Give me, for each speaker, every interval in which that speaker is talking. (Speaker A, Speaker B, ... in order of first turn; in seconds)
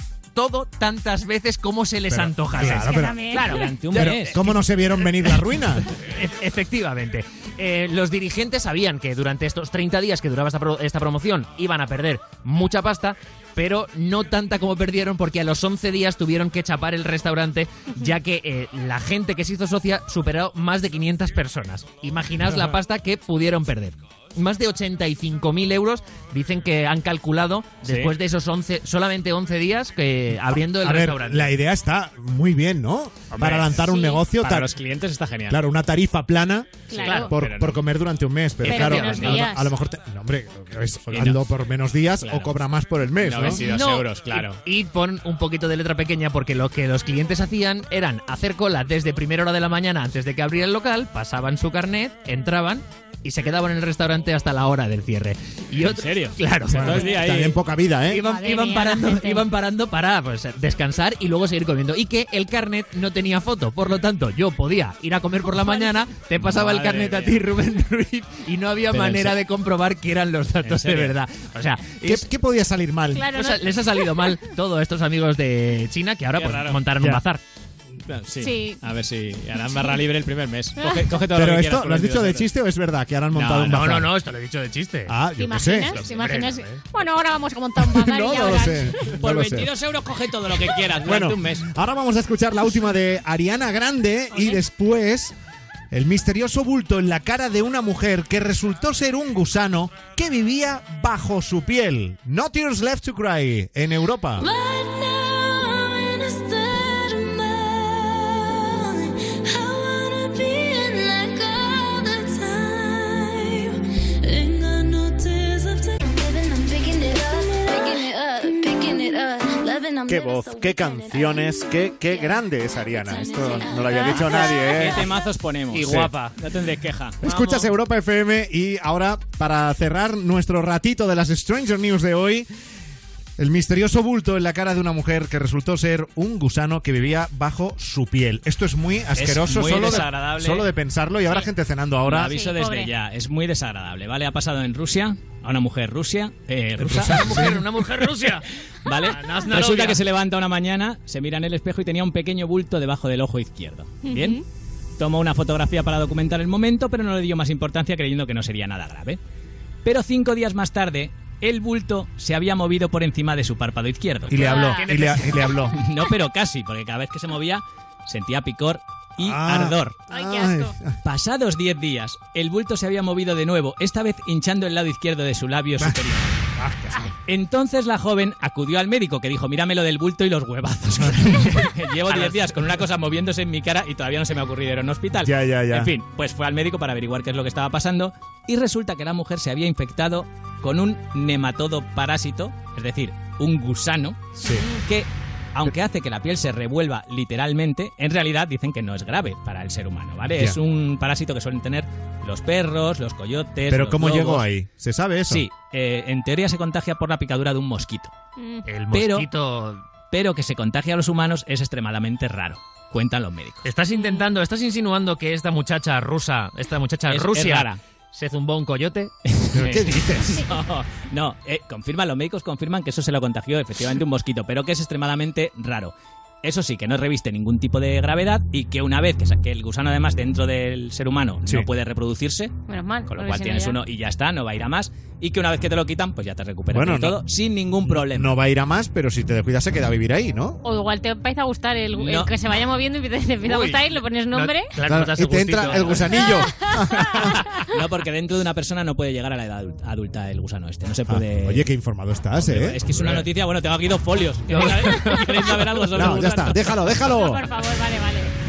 Speaker A: 0.3-4.4, 5.9-31.5, 37.0-37.3, 38.7-39.4, 43.4-57.1, 58.1-72.3, 73.3-77.4, 83.7-85.2, 86.0-86.8, 125.7-126.4, 127.2-127.7, 139.6-140.1, 147.0-150.0, 164.5-165.5, 182.1-182.5, 208.7-209.8, 213.7-219.1, 243.5-246.3, 254.5-255.5
Speaker B: 2.1-3.4, 3.9-5.9, 30.8-34.7, 35.5-43.6, 56.7-58.2, 72.0-73.3, 81.3-84.1, 85.1-86.0, 87.8-89.7, 91.0-95.3, 95.9-104.5, 120.1-125.1, 127.2-132.5, 133.4-142.4, 146.8-147.6, 164.3-165.8, 169.2-170.9, 176.6-177.1, 185.2-185.9, 194.4-194.7, 203.7-205.5, 219.5-220.5, 236.7-237.2, 237.8-240.6, 244.8-247.4, 251.1-253.2, 255.9-257.5
Speaker C: 2.6-3.7, 33.8-34.2, 36.9-37.3, 38.6-39.8, 58.2-59.5, 65.6-66.0, 73.1-74.5, 78.4-78.8, 80.8-81.2, 85.4-89.1, 94.3-94.6, 142.2-142.9, 154.0-154.4, 164.3-164.8, 170.1-170.8, 194.4-194.8, 208.4-208.7, 213.9-214.3, 232.7-233.8, 240.6-244.8, 246.3-247.0, 257.0-258.3
Speaker D: 3.5-4.5, 27.8-28.1, 33.4-35.6, 36.9-37.8, 38.7-39.5, 41.1-41.4, 42.2-42.6, 43.2-44.6, 55.9-57.6, 66.4-67.5, 68.9-69.4, 70.6-71.2, 76.3-77.0, 78.0-82.5, 83.3-84.0, 85.9-86.4, 89.2-91.7, 124.5-127.2, 139.2-140.7, 142.0-148.3, 148.8-154.4, 155.0-159.2, 159.8-164.7, 165.5-170.1, 171.0-176.3, 177.3-204.5, 205.3-208.1, 208.9-209.3, 210.1-213.7, 217.1-217.8, 219.3-232.5, 233.1-238.3, 242.0-242.3, 246.9-251.7, 252.4-256.8
Speaker E: 104.5-121.2, 123.2-124.5